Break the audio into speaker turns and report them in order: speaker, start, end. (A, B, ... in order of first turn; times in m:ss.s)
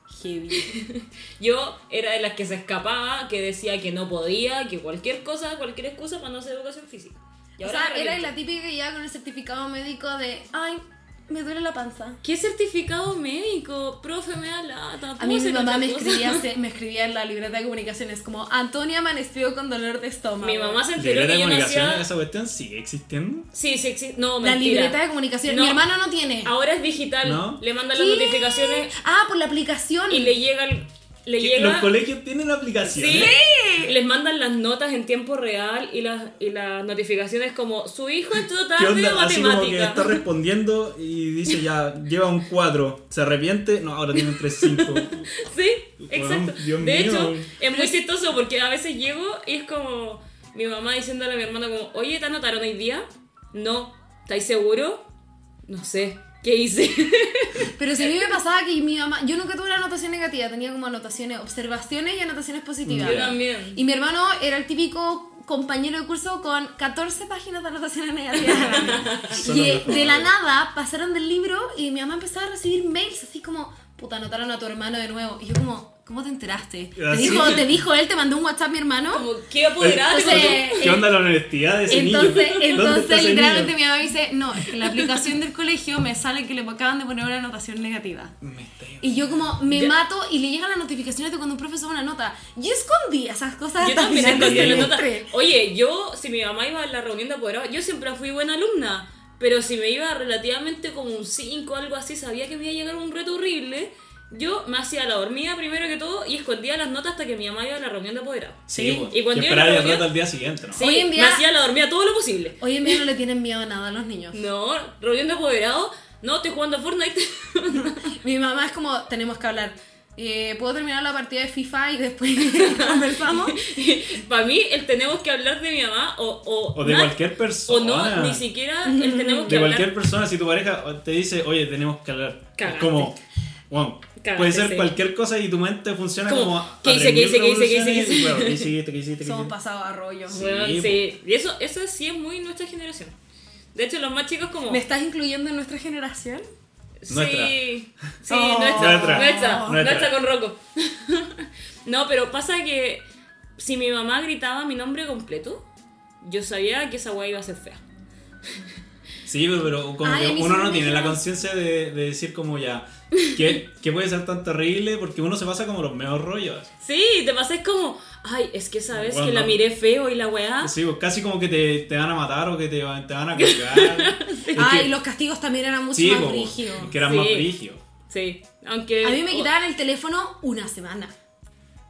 0:00.1-0:00.7 A
0:00.5-0:08.3 B
0:07.6-0:12.2 A
0:12.2-0:16.4 B
0:15.2-0:20.8 A
0:20.4-0:22.0 B
0:21.0-0:23.5 C
0:23.5-0:25.8 B
0:24.4-0:26.5 A
0:26.4-0:28.9 B
0:27.2-0:27.6 C
0:27.9-0:30.4 A
0:30.1-0:32.0 B
0:31.4-0:33.3 C
0:32.9-0:40.2 B
0:33.1-0:33.9 A
0:38.8-0:45.3 C
0:44.2-0:55.0 B
0:46.0-0:47.5 C
0:47.7-0:48.0 A
0:55.6-0:58.3 B
0:57.7-1:19.3 A
1:02.8-1:03.4 C
1:03.0-1:03.8 B
1:08.7-1:10.3 C
1:08.7-1:09.4 B
1:17.0-1:17.8 C
1:19.1-1:21.0 B
1:19.8-1:23.8 C
1:19.8-1:21.1 A
1:21.9-1:28.4 A
1:22.2-1:22.8 B
1:28.4-1:29.5 C
1:29.0-1:35.3 A
1:33.8-1:50.2 B
1:34.1-1:35.0 C
1:48.7-1:50.8 C
1:48.7-1:49.1 A
1:50.7-1:53.0 B
1:50.8-1:51.5 A
1:52.6-1:54.4 A
1:54.3-1:58.1 B
1:57.7-2:03.7 A
2:02.4-2:09.9 B
2:06.7-2:08.4 C
2:08.8-2:09.6 A
2:09.5-2:13.2 C
2:12.6-2:13.1 B
2:13.7-2:19.5 C
2:14.2-2:14.9 B
2:16.3-2:18.7 B
2:19.2-2:20.4 A
2:20.3-2:21.0 C
2:20.3-2:23.1 B
2:23.7-2:24.8 B
2:24.7-2:26.5 A
2:27.0-2:33.0 B
2:27.1-2:27.6 C
2:28.3-2:29.8 A
2:28.8-2:30.2 C
2:33.6-2:35.6 B
2:36.2-2:37.8 B
2:39.2-2:46.7 C
2:40.0-2:41.2 A
2:46.8-2:50.7 B
2:48.9-2:49.6 C
2:50.6-2:54.9 C
2:53.4-2:54.6 B
2:54.5-2:56.9 A
2:55.9-2:57.8 C
2:57.0-2:57.5 B
2:58.1-2:59.5 B
2:59.0-3:01.1 A